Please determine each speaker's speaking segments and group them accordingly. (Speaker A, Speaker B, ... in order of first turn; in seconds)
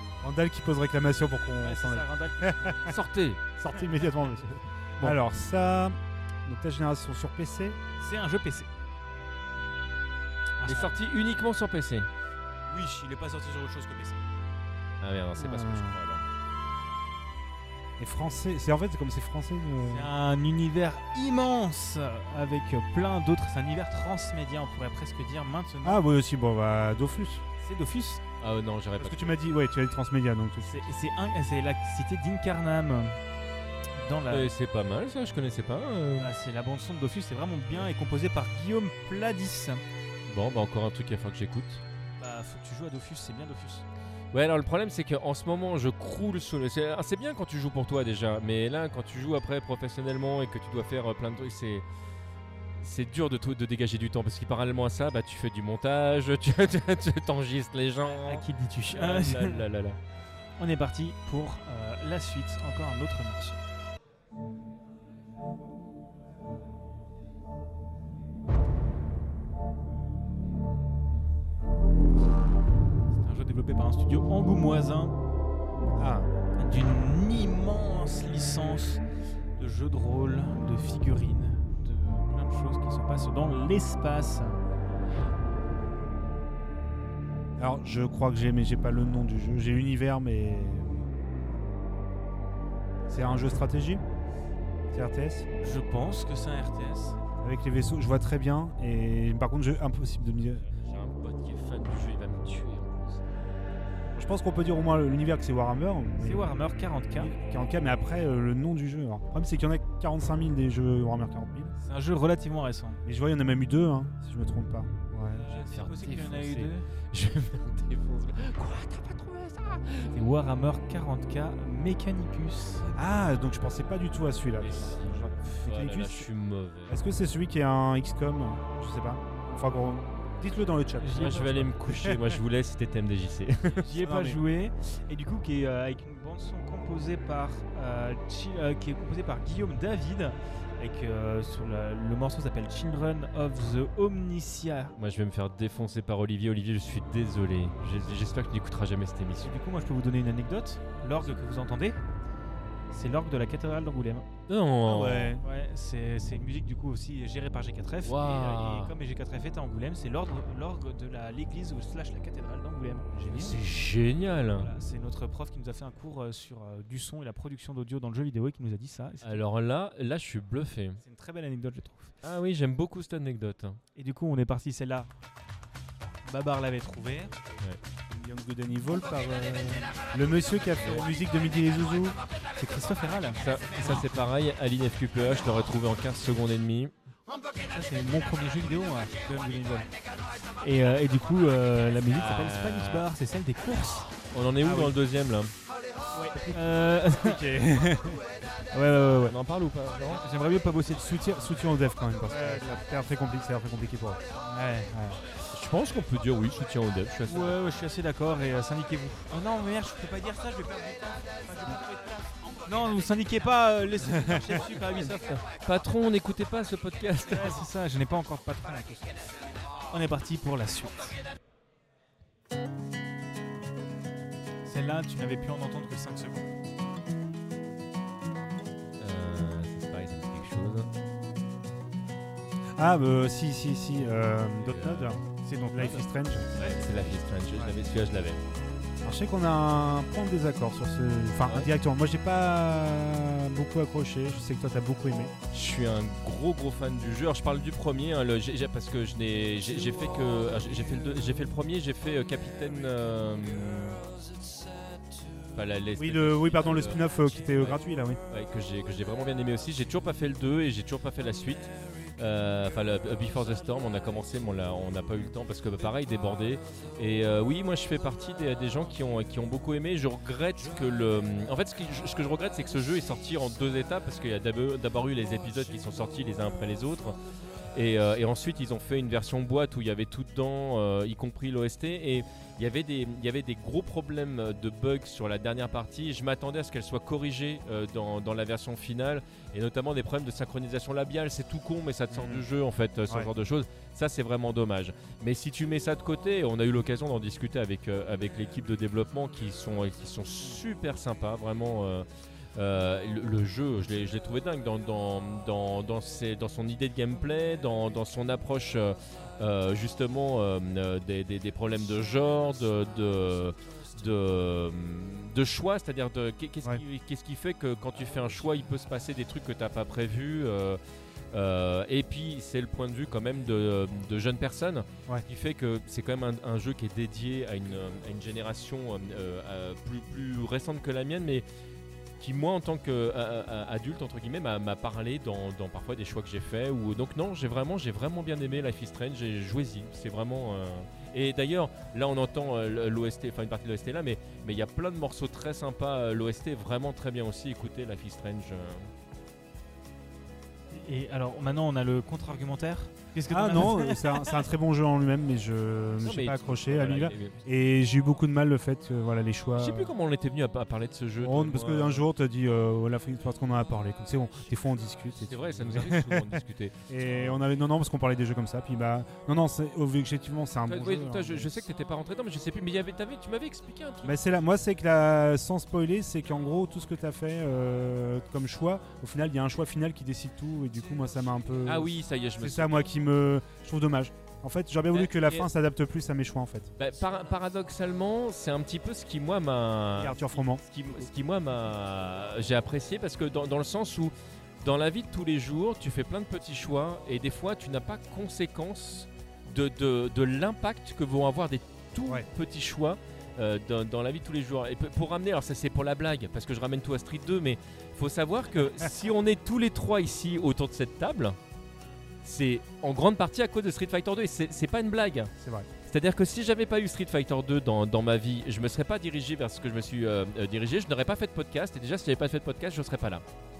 Speaker A: 0.2-3.0, 3.6-4.5, 5.0-7.8, 15.4-16.0, 18.0-20.1, 25.8-27.4, 29.0-30.8, 76.0-76.3, 87.6-91.1, 93.1-94.0, 94.9-95.5, 97.4-100.7, 104.2-106.5, 107.2-111.8, 113.1-115.4, 123.0-126.3, 126.9-132.4, 134.0-134.4, 154.9-155.4, 178.1-182.2, 197.2-198.2, 201.1-204.2, 204.9-205.2, 214.2-214.6, 232.8-236.5, 239.0-245.3, 256.0-258.2, 292.1-292.4, 353.3-359.9, 361.2-371.5, 374.0-386.7, 390.0-390.9, 415.4-415.7
Speaker B: 1.6-2.9, 8.0-8.7, 10.6-11.0, 12.7-14.2, 19.8-26.0, 27.6-28.2, 30.6-33.2, 34.0-34.5, 36.2-39.8, 42.2-43.9, 58.0-59.7, 60.6-63.6, 73.1-75.2, 76.6-79.0, 79.6-84.6, 95.6-97.2, 106.2-107.3, 111.8-113.0, 115.3-116.9, 120.1-122.9, 131.0-131.7, 133.8-144.9, 149.4-152.0, 152.9-154.3, 155.4-163.6, 164.6-169.4, 171.0-172.2, 173.9-175.1, 176.2-177.3, 182.6-184.1, 187.7-189.9, 190.6-194.9, 196.1-197.5, 198.7-199.4, 200.1-201.5, 202.2-202.8, 204.5-205.0, 207.3-215.4, 217.3-219.1, 219.9-221.2, 224.7-226.5, 235.4-236.8, 350.7-354.4
Speaker C: 2.9-3.4, 4.4-5.2, 10.7-12.1, 15.0-16.2, 28.4-29.4, 34.3-36.3, 40.3-41.8, 44.3-51.9, 52.8-60.0, 100.7-103.3, 115.5-120.1, 124.6-127.0, 131.2-133.9, 145.0-149.5, 154.5-155.4, 158.1-158.9, 163.3-164.7, 169.2-171.0, 172.2-173.8, 180.8-181.1, 183.4-186.9, 192.1-193.1, 194.3-195.5, 199.2-200.2, 205.5-207.6, 215.4-217.6, 229.0-230.9, 234.6-235.1, 236.6-238.4, 245.5-254.0, 255.5-277.2, 277.7-320.8, 321.3-331.5, 332.2-348.9, 356.0-357.4, 359.6-362.0, 365.2-367.4, 370.7-374.4, 381.6-382.9, 384.9-385.5, 386.8-411.4, 412.2-415.3, 415.9-423.2